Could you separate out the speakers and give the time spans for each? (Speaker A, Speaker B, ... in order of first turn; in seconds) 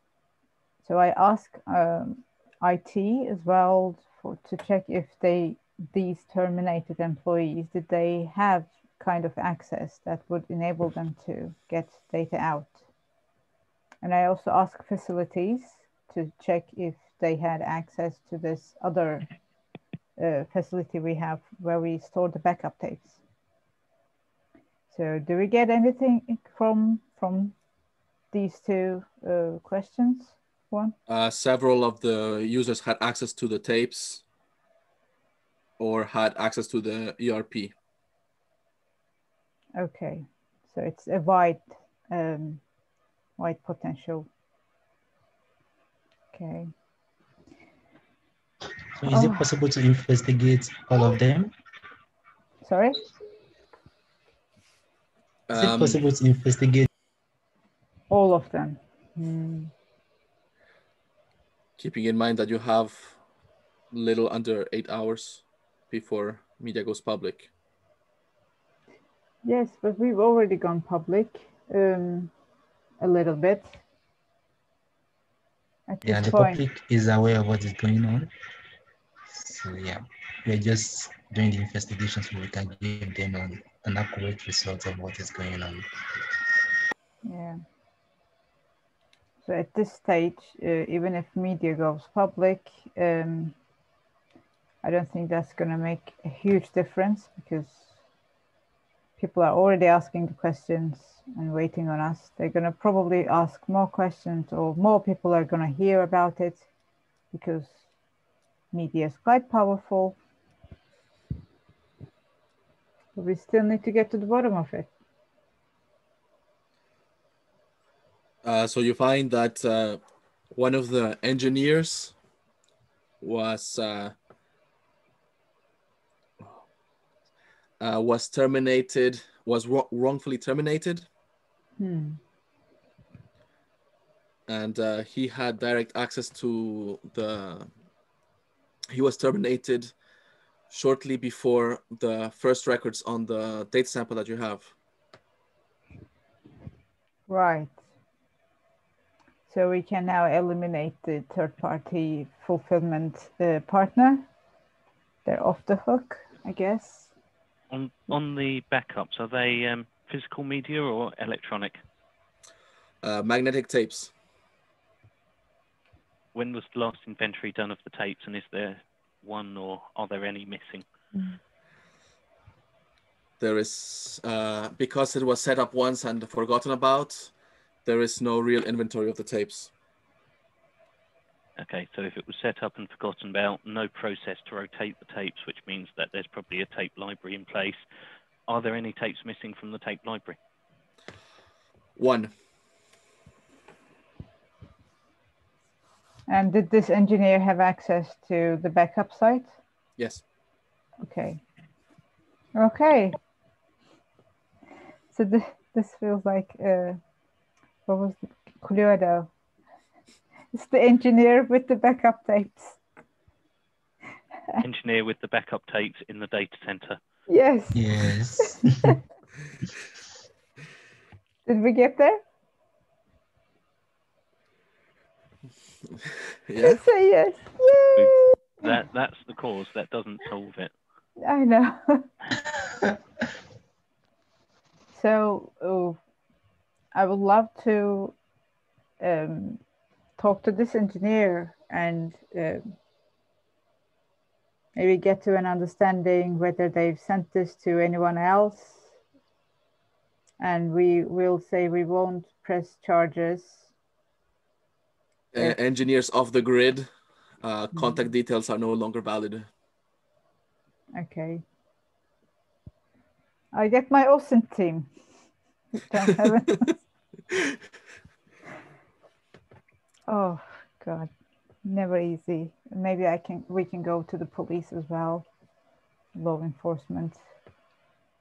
Speaker A: 0.8-12.8, 14.0-19.3, 20.2-23.2, 24.9-27.5, 28.3-30.9, 39.8-42.6, 43.4-44.3, 46.3-46.7, 49.1-49.5, 52.6-53.0, 58.1-59.7, 69.4-72.3, 73.0-73.8, 75.9-76.6, 87.2-87.6, 89.4-93.5, 94.8-97.9, 99.2-106.7, 107.3-107.8, 108.7-110.2, 113.2-114.9, 131.8-132.2, 147.3-147.8, 149.5-154.2, 155.2-157.1, 196.3-199.5, 201.0-201.4, 202.5-203.2, 205.1-207.0, 207.9-209.3, 210.5-212.8, 217.3-217.8, 218.4-218.9, 221.4-222.2, 226.6-228.6, 231.2-232.1, 234.9-236.0, 236.9-238.1, 239.0-239.6, 240.2-242.6, 244.7-248.9, 250.4-253.7, 257.7-258.0, 260.9-261.4, 263.5-264.9, 265.7-266.8, 270.1-271.1, 271.6-275.2, 276.1-277.2
Speaker B: 31.1-34.2, 35.8-37.7, 55.5-56.0, 61.8-63.2, 63.9-67.5, 118.4-120.0, 120.5-122.1, 123.2-124.1, 127.8-131.1, 134.5-137.7, 138.9-139.9, 140.7-144.7, 163.0-164.1, 173.4-177.3, 177.8-179.7, 191.9-192.3, 225.9-226.8, 255.3-256.9, 257.4-259.5
Speaker C: 49.0-51.5, 55.5-56.9, 76.0-78.3, 79.3-86.4, 217.7-218.9
Speaker D: 157.7-161.8, 166.3-170.8, 181.6-187.8, 188.5-190.4, 214.6-217.0, 227.9-230.7